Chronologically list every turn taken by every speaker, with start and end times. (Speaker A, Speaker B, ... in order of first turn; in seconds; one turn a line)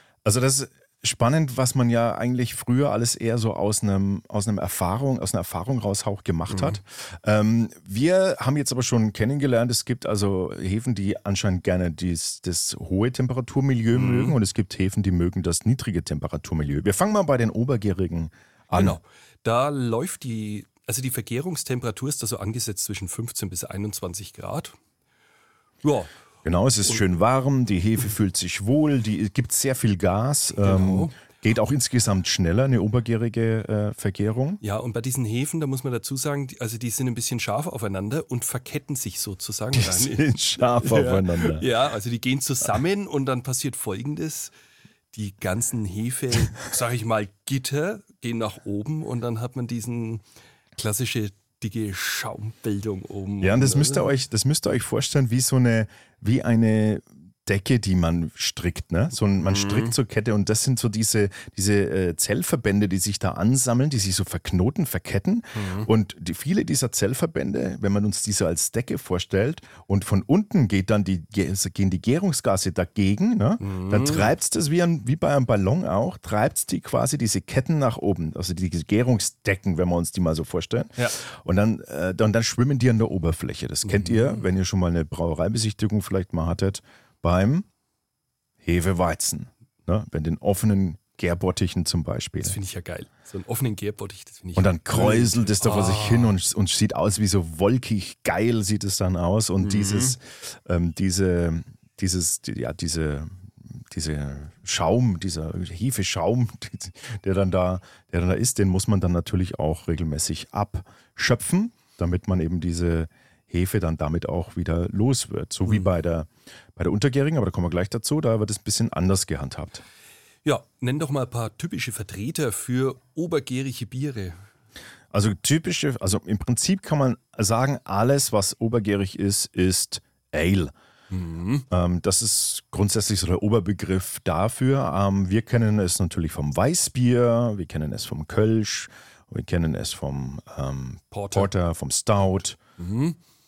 Speaker A: 0.2-19.0
Speaker B: 6.5-6.8
Speaker B: 13.9-14.4
Speaker B: 18.7-24.8
Speaker B: 25.8-26.1
Speaker A: 26.4-34.6
Speaker B: 30.6-31.2
Speaker B: 34.6-44.5
Speaker A: 39.7-41.6
Speaker B: 45.1-50.2
Speaker B: 50.7-54.1
Speaker A: 53.4-87.7
Speaker B: 59.4-59.9
Speaker B: 65.5-65.9
Speaker B: 73.6-74.3
Speaker B: 83.8-84.4
Speaker A: 88.6-92.6
Speaker B: 92.4-96.3
Speaker A: 94.5-119.8
Speaker B: 99.6-100.2
Speaker B: 120.4-124.4
Speaker A: 125.1-130.7
Speaker B: 131.1-131.7
Speaker A: 131.7-142.6
Speaker B: 141.1-141.5
Speaker B: 142.8-143.2